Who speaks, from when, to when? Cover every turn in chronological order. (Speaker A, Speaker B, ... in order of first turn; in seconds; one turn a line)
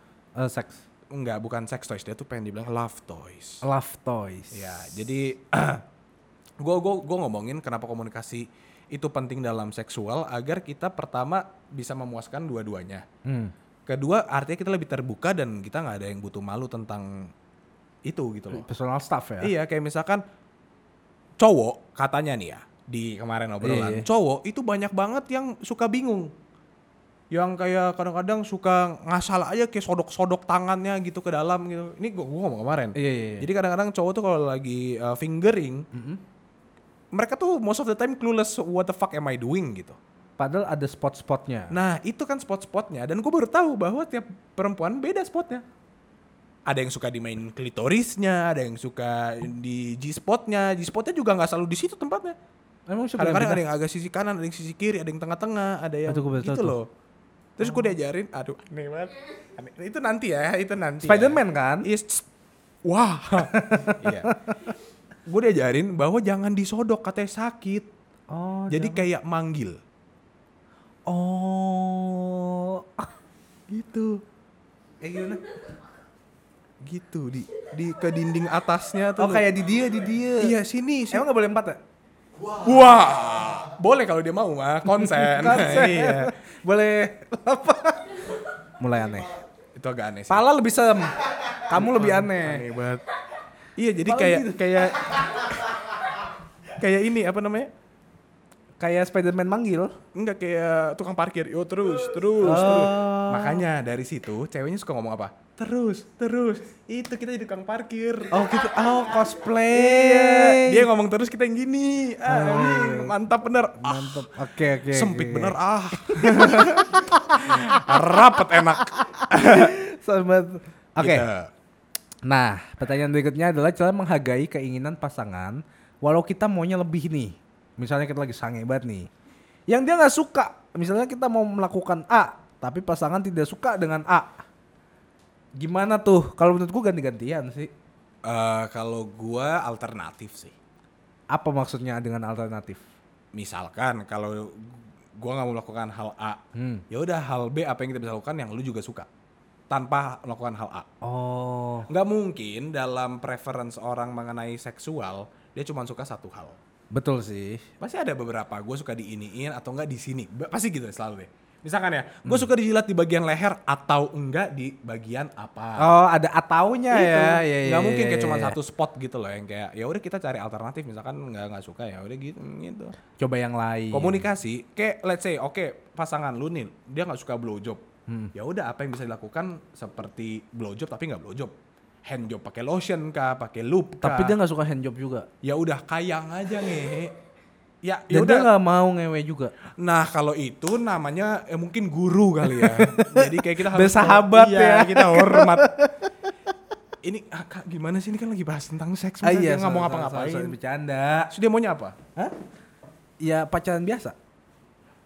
Speaker A: 0.3-0.8
Speaker B: 1.1-3.6
Speaker A: 3.6-4.8
Speaker B: 4.5-5.8
Speaker B: 6.6-13.0
Speaker A: 13.2-13.5
Speaker B: 13.9-17.3
Speaker B: 18.1-18.6
Speaker A: 18.5-19.5
Speaker B: 19.4-20.2
Speaker B: 21.4-26.3
Speaker A: 23.6-24.1
Speaker B: 27.3-35.9
Speaker A: 33.0-33.5
Speaker A: 35.9-36.2
Speaker B: 37.1-40.0
Speaker A: 40.4-41.8
Speaker B: 41.7-45.6
Speaker B: 46.7-52.4
Speaker A: 52.9-53.6
Speaker B: 53.2-56.9
Speaker A: 56.1-56.8
Speaker B: 57.6-62.2
Speaker A: 61.0-61.9
Speaker B: 62.8-64.3
Speaker A: 63.4-64.6
Speaker B: 65.2-67.9
Speaker A: 68.3-69.0
Speaker B: 68.7-69.8
Speaker A: 71.1-73.1
Speaker B: 73.7-74.2
Speaker A: 75.0-75.4
Speaker B: 76.8-79.5
Speaker A: 79.2-80.5
Speaker B: 80.4-81.2
Speaker A: 81.1-81.8
Speaker B: 82.6-86.3
Speaker A: 84.9-88.2
Speaker A: 88.8-89.3
Speaker B: 89.7-90.4
Speaker A: 90.3-92.7
Speaker B: 91.7-93.0
Speaker B: 93.8-95.7
Speaker A: 94.0-94.9
Speaker B: 96.7-97.7
Speaker A: 98.8-100.0
Speaker B: 100.1-108.6
Speaker A: 102.4-103.6
Speaker A: 108.3-110.9
Speaker B: 109.7-114.3
Speaker A: 112.2-113.2
Speaker A: 113.8-121.3
Speaker B: 114.9-119.8
Speaker B: 121.0-121.5
Speaker A: 122.2-129.1
Speaker A: 129.7-134.4
Speaker A: 135.6-137.7
Speaker B: 138.2-140.5
Speaker A: 141.3-142.8
Speaker B: 143.3-149.1
Speaker A: 146.5-146.8
Speaker B: 149.7-150.9
Speaker A: 151.0-151.9
Speaker B: 151.9-156.6
Speaker A: 156.9-157.7
Speaker B: 157.8-165.9
Speaker A: 165.8-168.6
Speaker B: 166.9-172.9
Speaker A: 173.2-174.2
Speaker B: 173.9-177.8
Speaker B: 178.3-181.5
Speaker B: 182.0-184.4
Speaker A: 184.0-185.3
Speaker B: 185.4-187.1
Speaker B: 187.8-188.5
Speaker A: 188.1-189.5
Speaker B: 189.7-195.7
Speaker A: 192.4-195.9
Speaker B: 197.0-200.5
Speaker A: 199.2-201.3
Speaker B: 201.3-202.0
Speaker A: 203.2-204.2